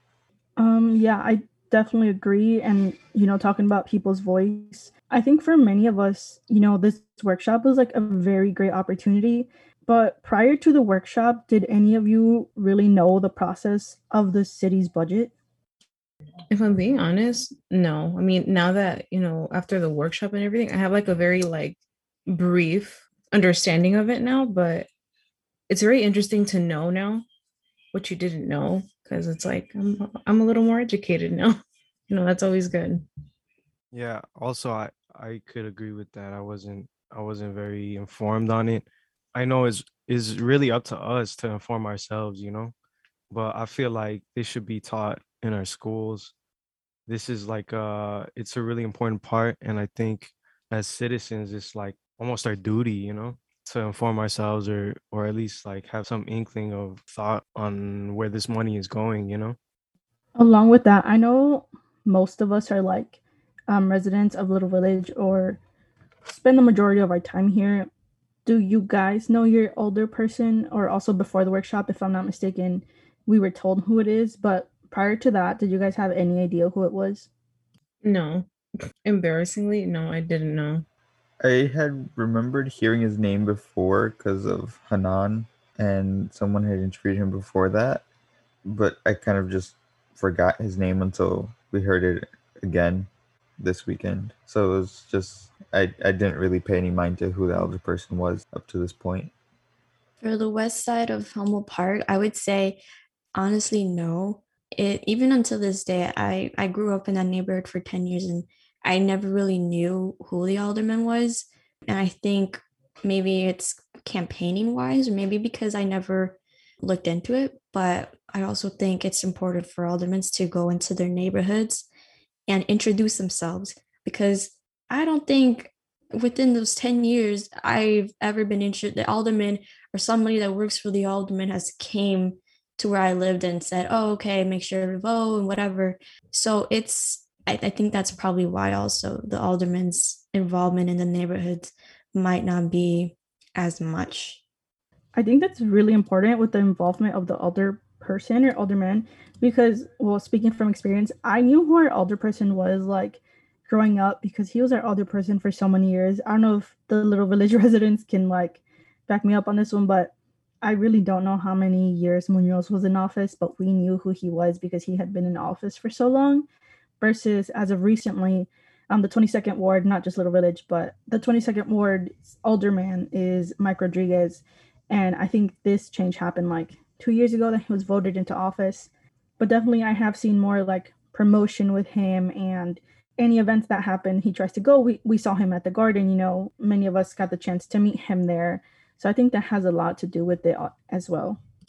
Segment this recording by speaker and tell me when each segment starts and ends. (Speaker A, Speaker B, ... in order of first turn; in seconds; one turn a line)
Speaker A: 0.6-15.3
Speaker B: 16.5-24.9
Speaker B: 25.7-27.3
Speaker B: 27.9-33.1
Speaker C: 33.9-42.7
Speaker C: 43.3-46.3
Speaker C: 47.1-59.6
Speaker A: 60.4-65.6
Speaker A: 66.3-67.9
Speaker A: 68.5-77.3
Speaker B: 78.0-78.5
Speaker B: 79.0-80.8
Speaker D: 81.4-88.0
Speaker D: 88.6-99.3
Speaker E: 100.2-102.8
Speaker E: 103.3-121.9
Speaker E: 122.5-144.4
Speaker A: 145.2-166.5
Speaker A: 167.0-191.4